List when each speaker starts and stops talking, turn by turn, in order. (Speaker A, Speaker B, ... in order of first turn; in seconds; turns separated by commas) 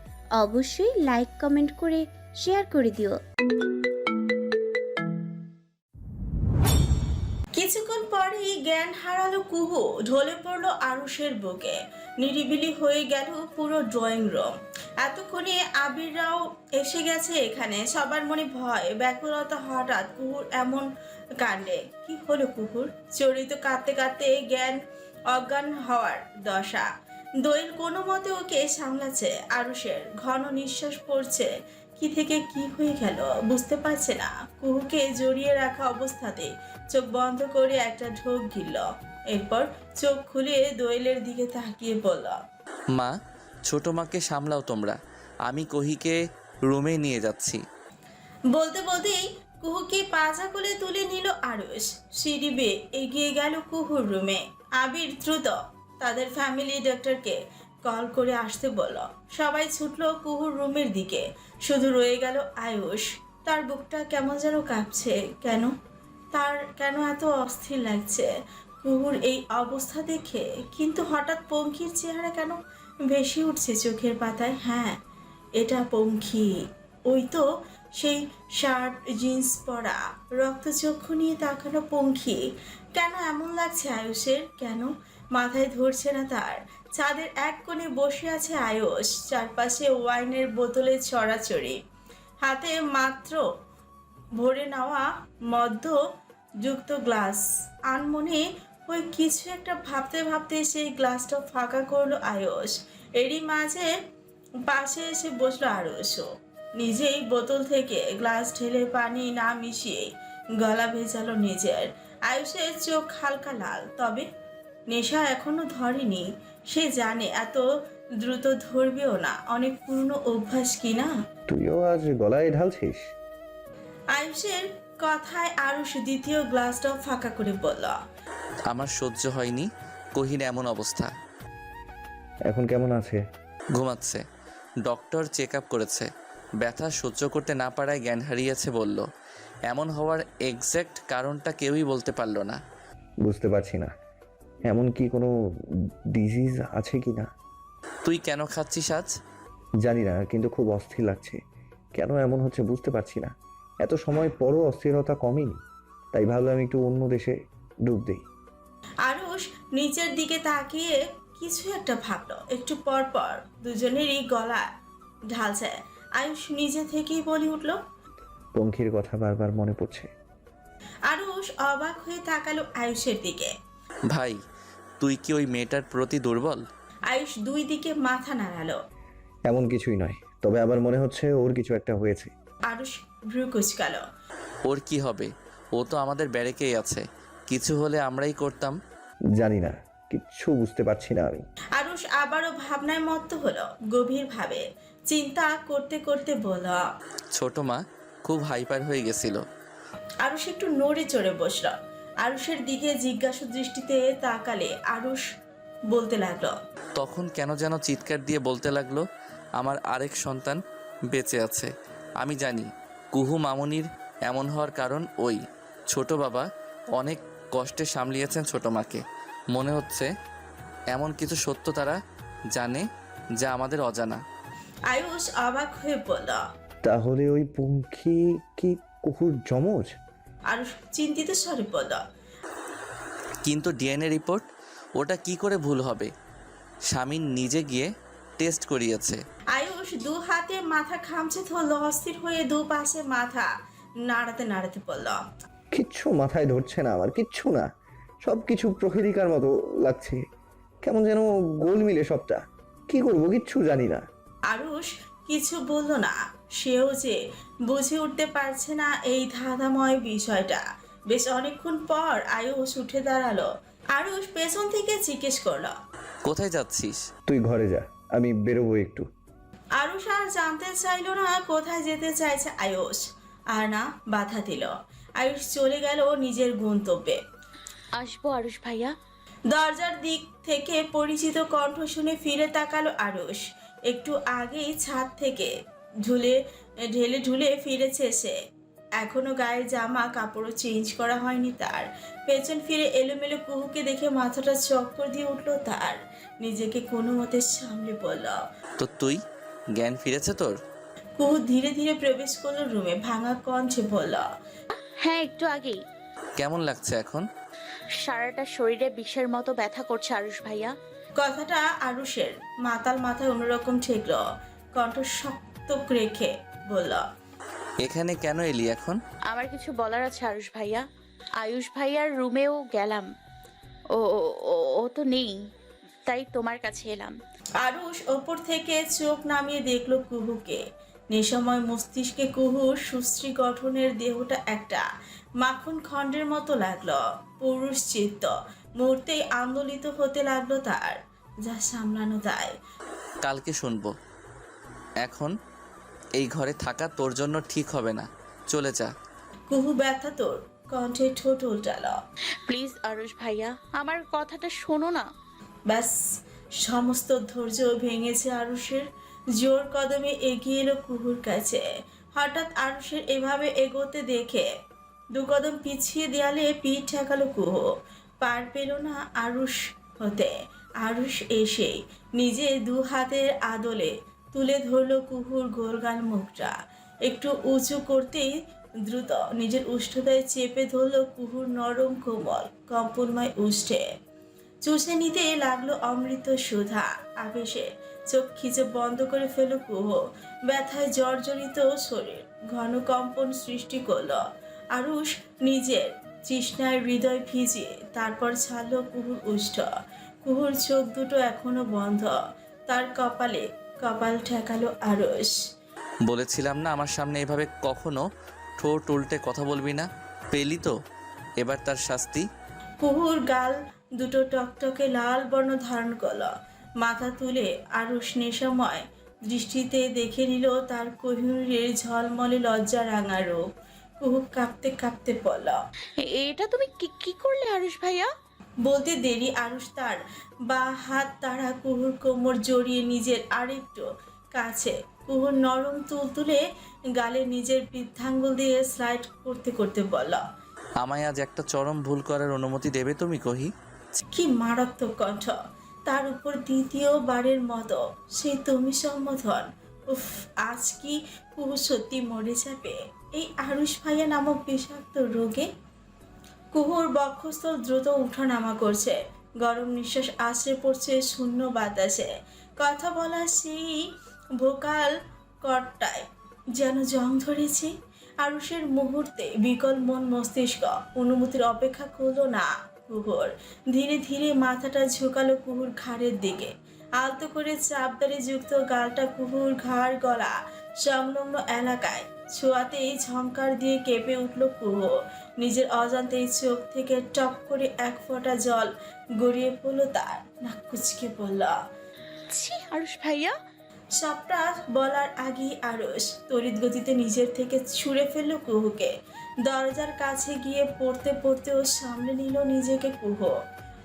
Speaker A: 0.4-3.1, Speaker B: 7.5-20.9, Speaker B: 21.4-24.8, Speaker B: 25.3-26.9, Speaker B: 27.4-42.4, Speaker C: 43.7-47.6, Speaker B: 48.5-65.7, Speaker B: 66.3-68.3, Speaker B: 68.8-72.6, Speaker B: 73.1-75.0, Speaker B: 75.6-77.4, Speaker B: 78.0-91.8, Speaker B: 92.4-93.4, Speaker B: 94.4-96.0, Speaker B: 96.6-103.9, Speaker B: 104.7-106.3, Speaker B: 106.8-114.2, Speaker B: 114.9-117.6, Speaker B: 118.2-121.1, Speaker D: 121.5-123.0, Speaker B: 124.1-128.0, Speaker C: 128.7-131.1, Speaker D: 132.5-133.2, Speaker C: 133.8-134.2, Speaker C: 134.8-136.1, Speaker C: 136.6-139.1, Speaker C: 139.7-142.6, Speaker D: 143.2-143.9, Speaker D: 144.7-145.3, Speaker D: 146.1-147.3, Speaker C: 148.0-149.1, Speaker D: 149.8-151.4, Speaker D: 151.9-153.3, Speaker D: 153.8-155.6, Speaker D: 156.1-158.2, Speaker B: 159.0-164.7, Speaker B: 165.3-167.8, Speaker D: 168.6-170.1, Speaker B: 171.1-173.5, Speaker C: 174.1-174.4, Speaker C: 175.0-176.6, Speaker B: 177.1-178.8, Speaker D: 179.5-182.3, Speaker B: 182.7-184.0, Speaker C: 184.7-188.8, Speaker D: 189.4-191.4, Speaker B: 191.8-196.8, Speaker C: 197.3-199.4, Speaker B: 200.2-205.2, Speaker B: 205.9-206.6, Speaker C: 207.0-209.0, Speaker C: 209.6-210.6, Speaker C: 211.1-211.7, Speaker C: 212.2-220.1, Speaker C: 220.9-222.0, Speaker C: 222.5-222.8, Speaker C: 223.4-224.2, Speaker B: 224.9-226.4, Speaker D: 226.8-229.9, Speaker B: 230.5-232.0, Speaker C: 233.4-234.4, Speaker C: 235.0-236.1, Speaker C: 236.9-239.2, Speaker B: 239.5-243.5, Speaker B: 244.1-245.2, Speaker D: 245.7-247.7, Speaker D: 248.2-250.2, Speaker D: 250.8-254.0, Speaker B: 254.5-265.7, Speaker C: 266.2-267.0, Speaker D: 267.3-269.1, Speaker B: 269.8-277.2, Speaker E: 277.9-278.9, Speaker B: 279.5-285.5, Speaker B: 286.0-286.4, Speaker B: 286.9-288.3, Speaker B: 289.0-298.4, Speaker C: 298.8-299.2, Speaker C: 299.8-300.6, Speaker B: 301.2-304.3, Speaker E: 305.0-305.8, Speaker C: 306.4-307.2, Speaker E: 308.0-310.7, Speaker B: 311.2-314.2, Speaker B: 314.7-317.1, Speaker C: 317.8-319.0, Speaker E: 319.3-320.8, Speaker E: 321.4-323.1, Speaker E: 323.9-325.4, Speaker E: 326.1-327.2, Speaker B: 327.6-334.8, Speaker B: 335.4-342.5, Speaker C: 343.2-343.9, Speaker C: 345.0-345.3, Speaker C: 346.2-348.9, Speaker B: 349.5-352.0, Speaker E: 352.5-355.1, Speaker B: 355.7-355.9, Speaker B: 356.6-358.9, Speaker B: 359.4-364.5, Speaker B: 365.1-367.7, Speaker B: 368.2-378.3, Speaker B: 378.8-383.9, Speaker B: 384.6-394.2, Speaker B: 394.7-399.7, Speaker B: 400.2-405.4, Speaker C: 406.1-408.0, Speaker C: 408.6-410.7, Speaker C: 411.4-412.2, Speaker B: 412.8-423.4, Speaker B: 424.0-425.6, Speaker E: 426.0-428.1, Speaker B: 428.6-436.4, Speaker B: 437.0-440.2, Speaker C: 440.8-444.0, Speaker B: 444.1-455.5, Speaker B: 456.5-466.1, Speaker B: 466.6-491.6, Speaker E: 492.3-493.4, Speaker B: 494.0-498.9, Speaker B: 499.4-503.3